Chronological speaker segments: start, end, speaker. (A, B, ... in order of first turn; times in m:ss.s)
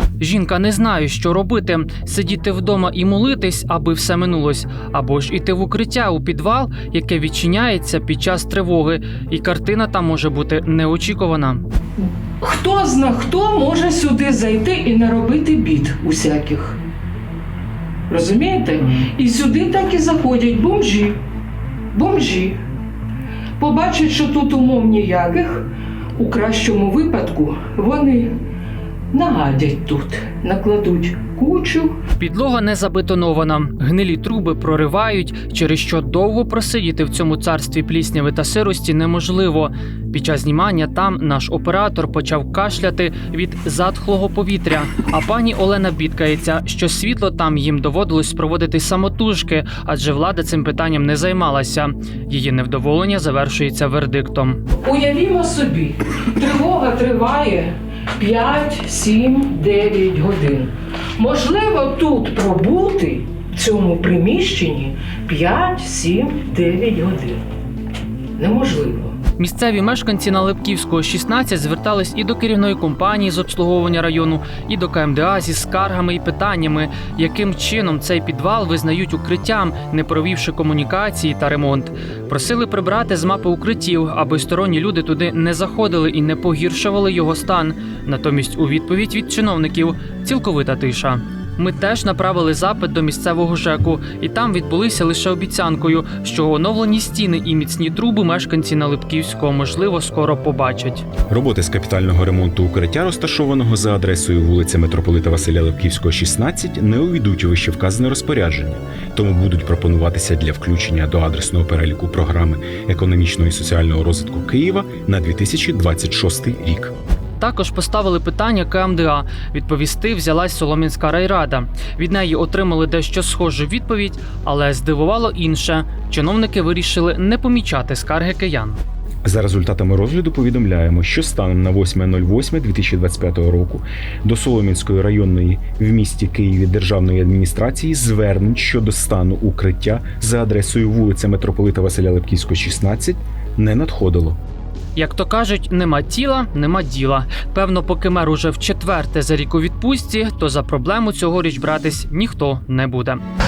0:00.2-0:11.6 A
0:12.4-0:16.8 B
0:18.1-0:21.2 B
0:21.9-0:22.6 B
0:23.6-0:25.7 B
0:26.2-0:28.3 B
0:29.1-0:32.0 B
0:32.2-0:54.6 A
0:54.8-1:07.4 B
1:08.4-1:09.2 B
1:09.4-1:41.1 A
1:41.3-1:56.9 C
1:57.4-2:08.8 A
2:09.2-2:24.4 C
2:25.0-2:33.2 A